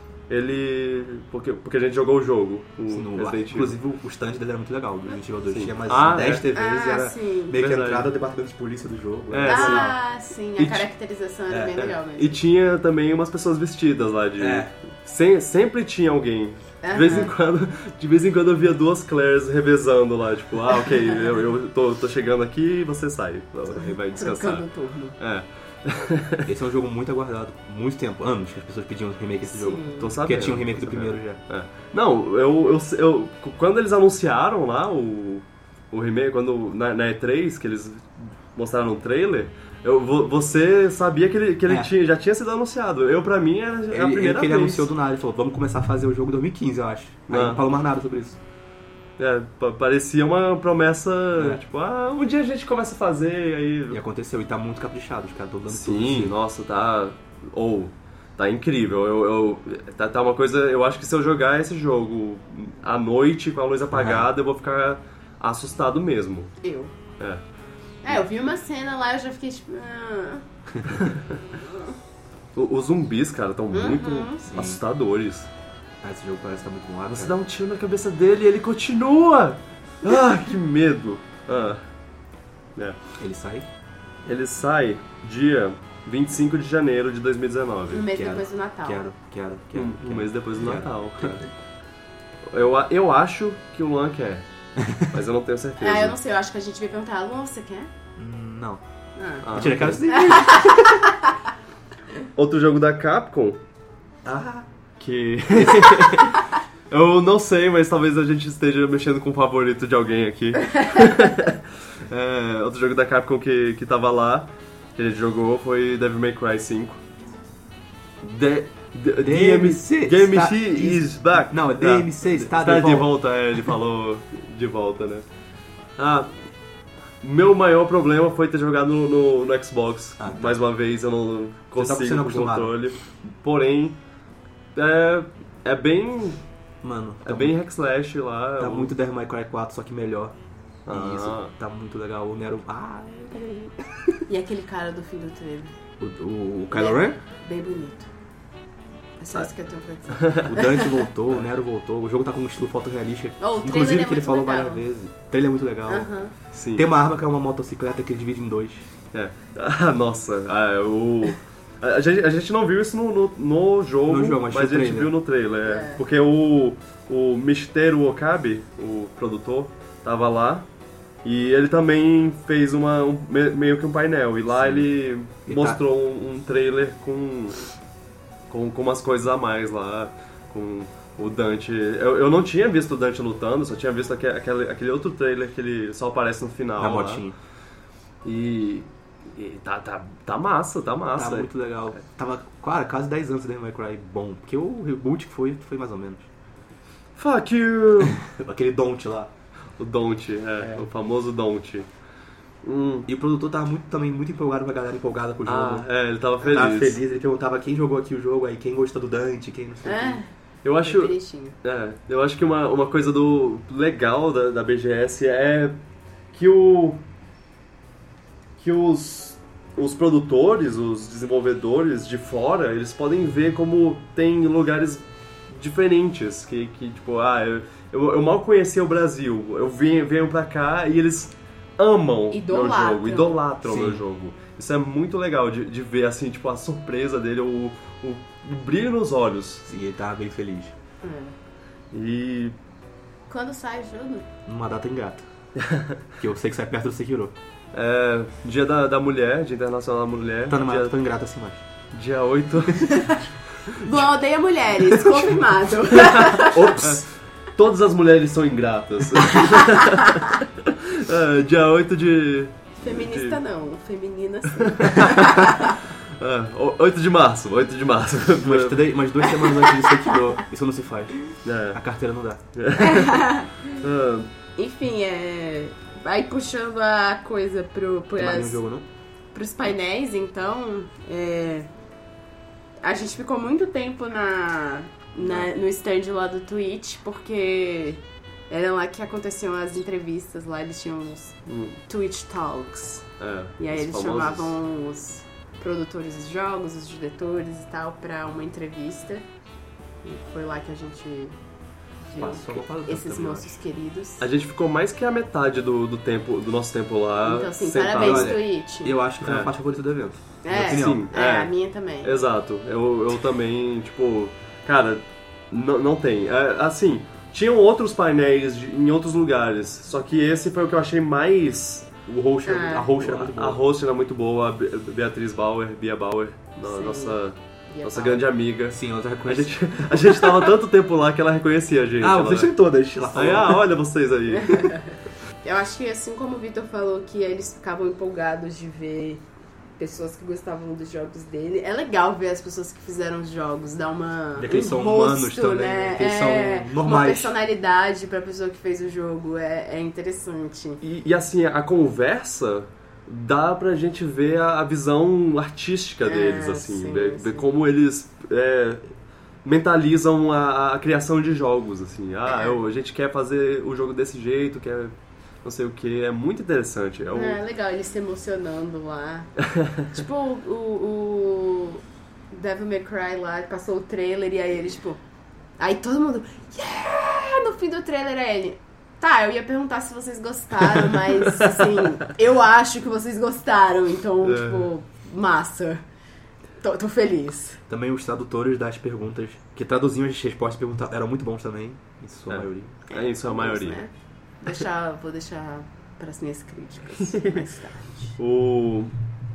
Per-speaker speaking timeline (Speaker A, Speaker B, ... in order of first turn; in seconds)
Speaker A: 0.3-3.8, 5.5-6.5, 7.6-8.1, 9.3-9.9, 11.8-24.6, 25.2-26.5, 30.0-44.9, 47.3-47.6, 49.2-54.0, 55.7-66.5, 72.5-75.5, 77.1-81.8, 84.2-88.0, 89.7-91.5, 92.5-94.5, 95.0-96.2, 99.4-100.0, 102.3-103.6, 105.0-117.0, 118.2-125.2, 126.0-126.3, 127.2-134.0, 134.7-136.4, 137.2-138.9, 140.8-141.5, 150.2-150.5, 156.5-156.9, 159.1-170.7, 171.2-177.6, 178.5-187.2, 188.2-191.5, 197.2-198.2, 199.8-201.9, 202.6-203.1, 205.4-207.0, 210.6-215.8, 216.3-217.0, 218.6-239.6, 241.9-242.6, 245.6-246.0, 247.7-250.9, 251.9-254.0, 256.0-263.4, 264.6-268.8, 271.4-271.8, 272.6-273.2, 273.8-274.3, 285.2-285.5, 291.5-291.8, 293.2-294.6, 304.2-308.4, 309.2-309.5, 310.5-322.0, 322.9-332.5, 333.1-334.8, 350.8-358.9, 359.4-367.4, 369.4-369.9, 381.3-381.9, 384.2-384.7, 392.3-393.8, 397.1-397.4, 398.2-398.9
Speaker B: 2.9-9.9, 11.5-11.8, 14.4-14.7, 26.4-31.4, 43.9-48.4, 53.9-56.3, 63.9-64.3, 74.5-74.8, 76.0-77.3, 83.2-83.7, 88.1-91.4, 94.8-95.0, 98.2-98.8, 99.5-101.1, 104.2-104.7, 105.6-106.0, 119.2-123.1, 130.2-130.6, 131.7-132.7, 136.8-137.6, 138.6-140.3, 140.9-144.2, 146.0-147.2, 150.4-156.1, 156.8-158.8, 164.1-165.1, 174.6-174.9, 175.4-175.8, 186.8-187.3, 191.1-196.3, 198.0-199.3, 200.6-200.9, 203.1-205.9, 206.4-210.2, 233.6-234.0, 239.7-240.7, 244.4-245.2, 246.2-247.3, 250.5-251.6, 256.5-257.0, 268.4-271.2, 271.7-272.4, 278.2-278.8, 302.1-303.5, 307.9-311.0, 322.1-323.6, 328.7-330.5, 332.0-333.7, 344.4-347.3, 387.7-392.7
Speaker C: 6.5-7.6, 9.4-12.4, 16.8-17.3, 23.7-25.2, 29.5-30.1, 66.6-66.9, 68.0-70.4, 71.5-71.9, 73.7-74.4, 87.9-89.0, 95.8-97.9, 99.2-99.5, 100.1-101.1, 144.3-145.7, 146.7-148.1, 149.2-151.1, 153.4-154.8, 155.9-156.3, 165.6-166.0, 209.8-210.3, 210.8-211.6, 232.3-233.4, 241.0-241.3, 243.3-244.3, 252.9-256.8, 262.8-265.8, 269.3-270.2, 272.8-273.7, 274.6-278.6, 279.3-281.7, 282.8-293.1, 293.6-299.2, 300.0-301.3, 302.1-304.2, 307.2-309.0, 310.4-312.1, 322.4-322.9, 326.6-328.2, 334.3-339.2, 339.8-350.8, 356.0-357.5, 362.2-362.6, 367.1-369.3, 369.9-375.0, 375.6-385.8, 386.6-387.6, 392.9-398.2